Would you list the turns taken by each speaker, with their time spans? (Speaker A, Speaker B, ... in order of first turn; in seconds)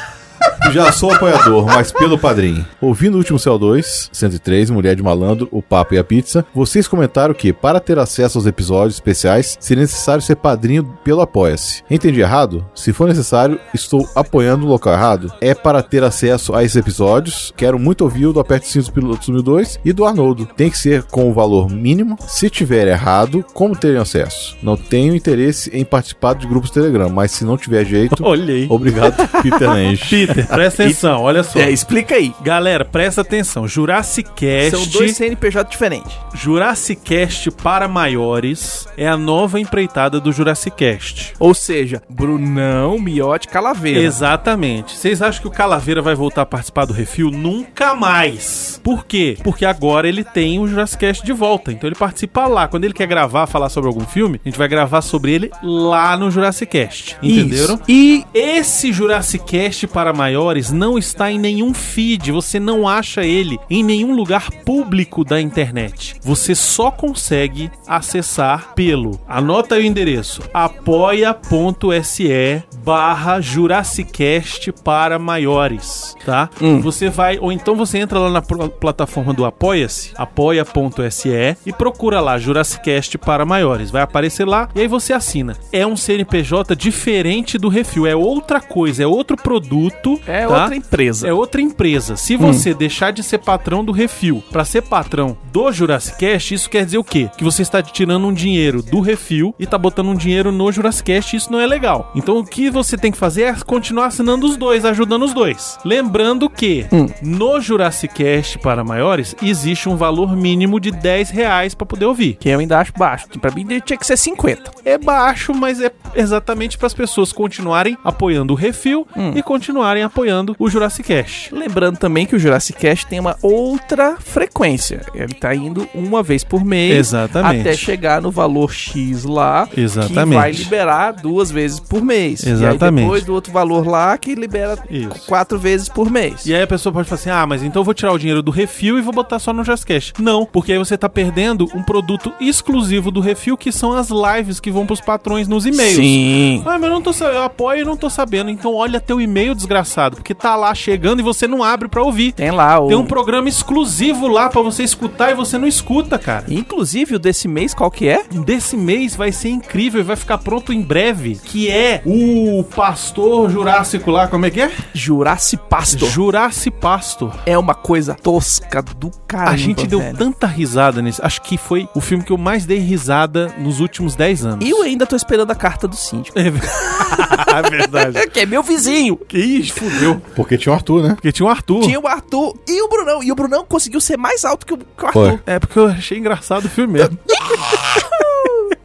Speaker A: 0.6-30.4, 180.3-181.2, 185.1-185.4
Speaker B: 28.1-28.8, 30.0-31.8, 32.4-35.2, 36.3-41.3, 43.9-112.4, 114.8-121.5, 126.9-127.9, 129.7-130.7, 132.4-133.2, 134.9-135.3, 136.4-156.5, 158.3-164.8, 165.9-167.4, 169.4-174.8, 176.3-178.3, 179.3-180.2, 181.2-182.0, 185.4-188.0
Speaker C: 31.5-32.4, 34.6-36.2, 41.4-44.2, 57.2-58.2, 76.6-76.9, 90.2-91.3, 92.4-92.7, 112.4-114.7, 119.1-119.4, 121.5-136.5, 145.7-146.7, 152.4-153.1, 156.5-158.3, 164.9-166.2, 167.4-170.2, 174.6-179.2, 181.8-185.4, 187.5-188.7